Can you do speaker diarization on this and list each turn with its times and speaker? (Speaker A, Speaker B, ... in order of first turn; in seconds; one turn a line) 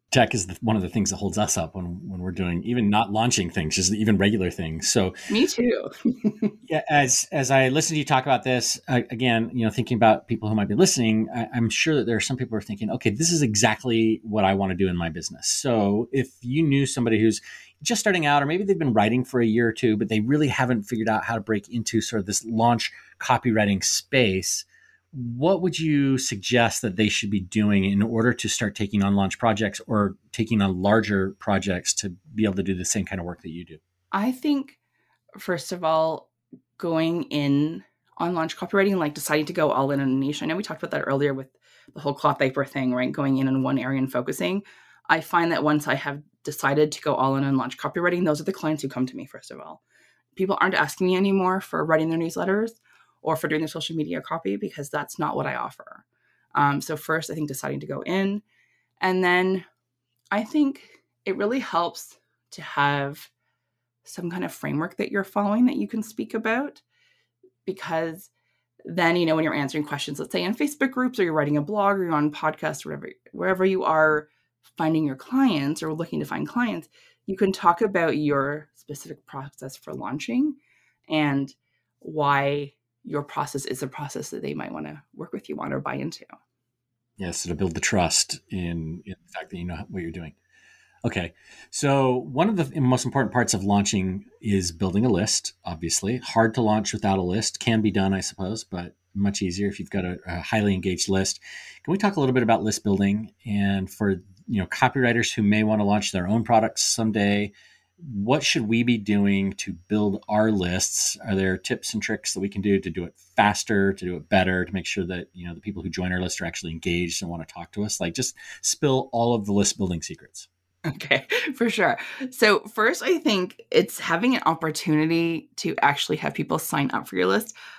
Speaker A: 0.1-5.2
Speaker B: 5.3-6.5
Speaker A: 6.7-33.8
Speaker B: 34.1-34.8
Speaker B: 35.4-49.8
Speaker B: 50.4-56.0
Speaker B: 56.5-58.4
Speaker B: 59.0-59.7
Speaker B: 60.3-63.3
Speaker B: 64.0-66.8
Speaker B: 67.7-68.3
Speaker B: 68.8-80.6
Speaker B: 81.1-86.3
Speaker A: 87.2-90.4
Speaker A: 91.0-120.5
Speaker B: 120.9-127.5